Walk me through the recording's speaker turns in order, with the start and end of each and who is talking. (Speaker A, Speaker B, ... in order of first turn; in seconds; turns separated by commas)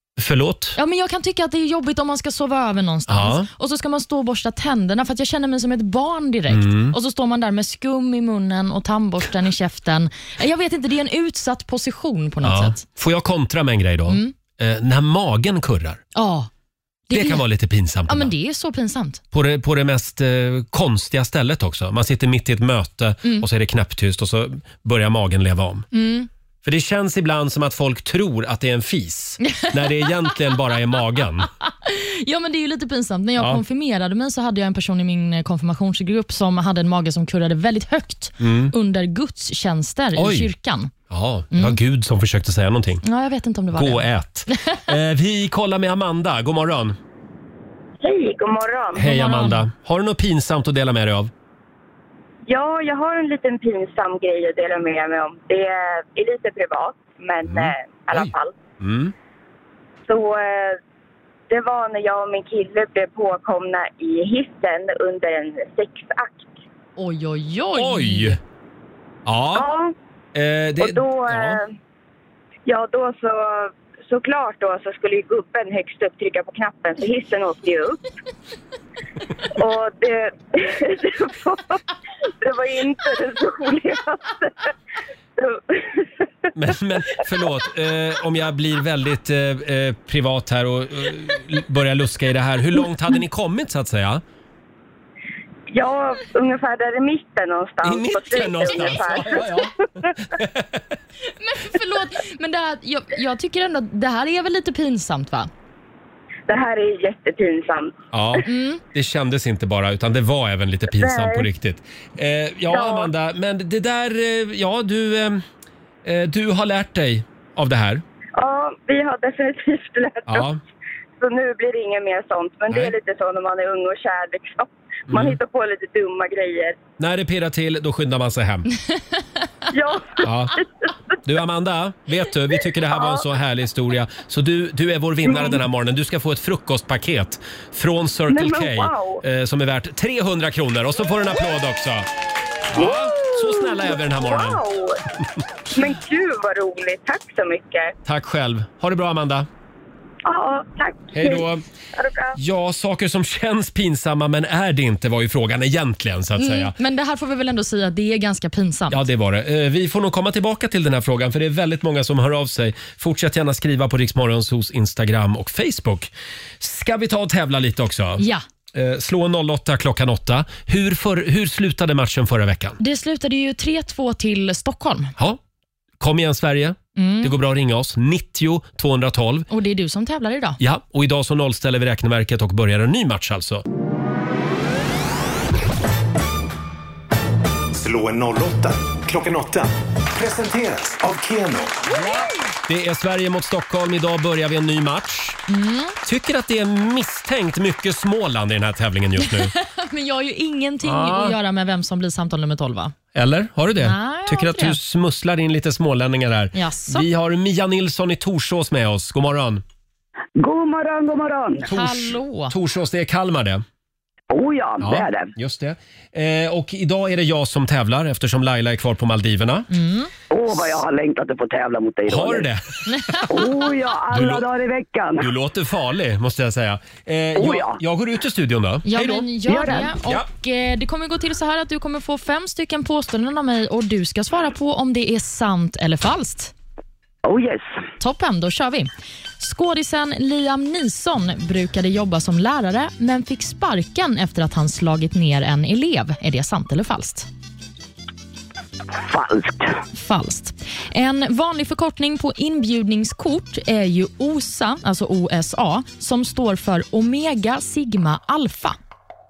Speaker A: 0.2-0.8, Speaker B: 0.8-12.8, Speaker A: 3.1-3.5, Speaker A: 6.5-7.0, Speaker A: 12.4-16.0, Speaker B: 14.1-14.3, Speaker B: 16.1-16.5, Speaker B: 17.1-17.4, Speaker A: 17.1-18.3, Speaker B: 18.1-19.2, Speaker A: 19.3-25.9, Speaker B: 25.9-26.3, Speaker A: 26.6-31.5, Speaker B: 29.4-30.1, Speaker B: 31.8-40.9, Speaker A: 38.4-38.7, Speaker A: 40.2-40.5, Speaker A: 41.1-43.0, Speaker B: 43.0-44.8, Speaker A: 43.7-47.0, Speaker C: 48.0-49.1, Speaker A: 49.0-51.3, Speaker B: 49.0-49.6, Speaker C: 52.5-58.6, Speaker A: 57.5-59.1, Speaker C: 60.1-60.8, Speaker C: 61.5-66.6, Speaker B: 67.0-68.4, Speaker A: 67.8-68.4, Speaker A: 69.3-69.7, Speaker C: 69.5-69.9, Speaker A: 70.3-71.6, Speaker C: 70.8-71.7, Speaker C: 72.7-78.0, Speaker C: 79.6-81.8, Speaker C: 82.4-84.7, Speaker C: 85.4-86.0, Speaker A: 86.5-94.2, Speaker C: 95.7-99.4, Speaker A: 97.8-100.8, Speaker B: 101.4-105.5, Speaker C: 106.5-108.0, Speaker A: 108.1-115.4, Speaker B: 108.5-108.8, Speaker C: 111.0-111.5, Speaker C: 112.7-113.1, Speaker A: 116.0-118.0, Speaker C: 118.4-120.5, Speaker A: 120.3-120.6, Speaker C: 121.2-126.8, Speaker A: 125.1-125.4, Speaker A: 127.0-128.7, Speaker C: 129.7-130.7, Speaker A: 130.2-130.6, Speaker A: 131.2-142.1, Speaker C: 138.3-139.2, Speaker A: 142.7-144.6, Speaker C: 142.8-145.0, Speaker C: 145.7-147.9, Speaker A: 148.1-149.5, Speaker C: 150.3-151.4, Speaker A: 151.1-151.6, Speaker C: 152.0-152.3, Speaker A: 152.3-156.8, Speaker B: 156.4-159.0, Speaker A: 158.9-172.8, Speaker B: 168.2-168.4, Speaker B: 172.8-175.1, Speaker A: 176.0-179.5, Speaker B: 177.0-177.3, Speaker B: 179.5-180.6, Speaker A: 180.6-183.7, Speaker D: 187.8-191.7, Speaker A: 191.9-195.4, Speaker B: 195.5-196.0, Speaker A: 196.1-199.5, Speaker B: 199.2-202.9, Speaker A: 200.8-201.4, Speaker A: 203.2-209.6, Speaker B: 203.8-204.8, Speaker B: 206.6-207.1, Speaker E: 210.4-211.7, Speaker A: 211.7-213.6, Speaker B: 211.7-212.5, Speaker E: 214.3-215.3, Speaker A: 214.8-219.7, Speaker B: 219.7-220.1, Speaker E: 220.3-222.5, Speaker A: 222.1-223.2, Speaker B: 222.9-223.2, Speaker E: 223.3-225.3, Speaker A: 224.1-224.5, Speaker A: 225.2-229.3, Speaker E: 227.4-227.8, Speaker B: 228.9-236.5, Speaker E: 229.4-229.9, Speaker A: 230.0-230.3, Speaker E: 237.2-237.7, Speaker B: 238.0-247.3, Speaker E: 249.0-249.7, Speaker B: 249.9-258.8